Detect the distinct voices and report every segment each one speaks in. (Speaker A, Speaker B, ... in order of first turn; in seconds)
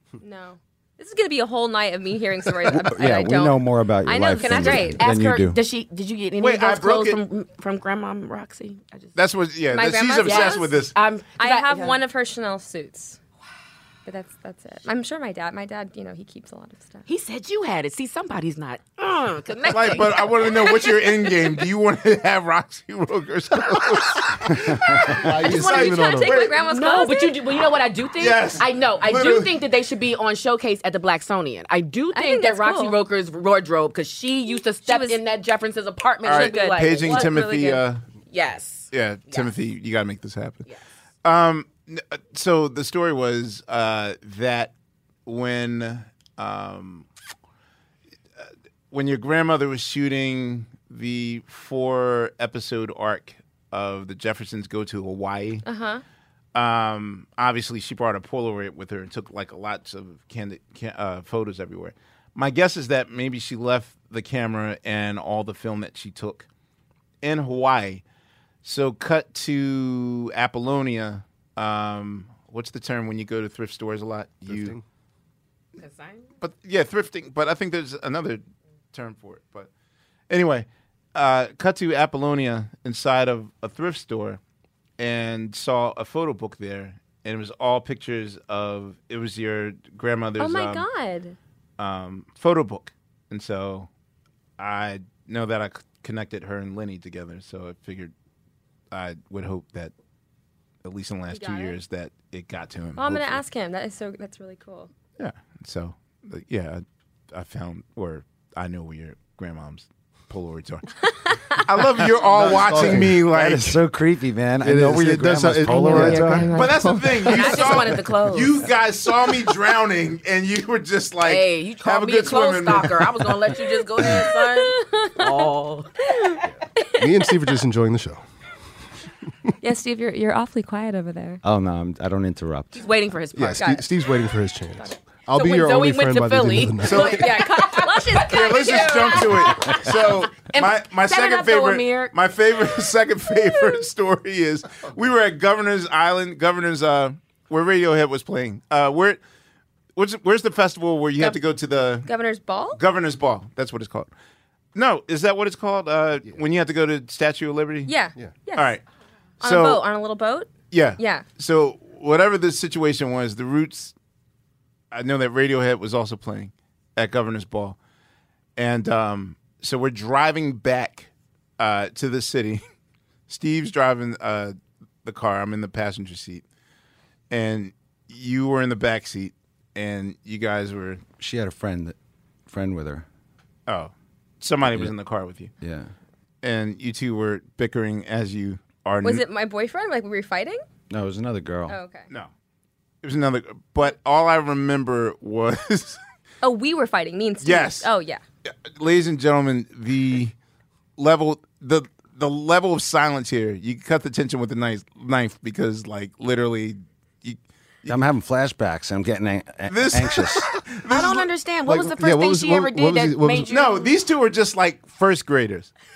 Speaker A: 0.2-5.2, 9.7-13.2, 14.1-17.1, 25.3-27.4, 32.1-33.0, 34.8-35.2, 36.2-37.8, 55.6-56.0, 90.4-91.4, 101.3-101.8, 103.0-104.9, 115.7-117.9, 124.0-125.5, 126.1-127.3, 129.6-131.4, 133.6-133.9, 137.0-139.9, 152.1-152.8, 157.9-158.8, 159.4-161.2, 189.0-190.6, 191.7-192.1, 196.4-198.2
Speaker B: 2.7-5.6, 112.5-116.5, 131.4-132.8, 181.2-183.1, 184.7-184.9, 185.6-185.9, 190.9-191.8, 207.9-210.5
Speaker C: 4.4-9.2, 10.2-12.0, 17.1-20.7, 26.6-37.5, 38.3-39.5, 75.8-76.3, 117.2-118.6, 121.2-126.0, 132.7-133.7, 135.3-139.8, 140.4-142.1, 210.9-213.9
Speaker D: 6.4-7.2, 9.2-10.9, 19.7-26.6, 28.2-29.6, 36.2-38.0, 38.9-40.7, 41.2-44.7, 45.3-47.1, 48.4-55.6, 56.5-66.5, 67.2-68.0, 68.6-74.8, 76.4-78.4, 78.9-79.7, 80.3-84.4, 85.0-90.8, 91.8-93.9, 94.6-98.1, 98.9-99.9, 100.8-103.4, 105.2-111.0, 111.5-113.8, 116.5-123.3, 136.8-137.3, 138.2-149.2, 150.0-152.1, 152.8-154.1, 154.8-157.9, 158.6-158.8, 159.4-159.8, 160.7-163.9, 164.9-167.8, 168.6-172.6, 173.3-176.4, 177.3-181.0, 183.7-185.5, 186.4-189.2, 193.0-196.0, 197.4-197.9, 198.5-200.3, 201.0-208.0, 209.7-211.3, 213.5-215.7
Speaker E: 25.0-26.5, 74.5-74.8, 112.3-113.2, 114.6-117.2, 127.0-128.2, 133.3-137.3, 211.7-213.5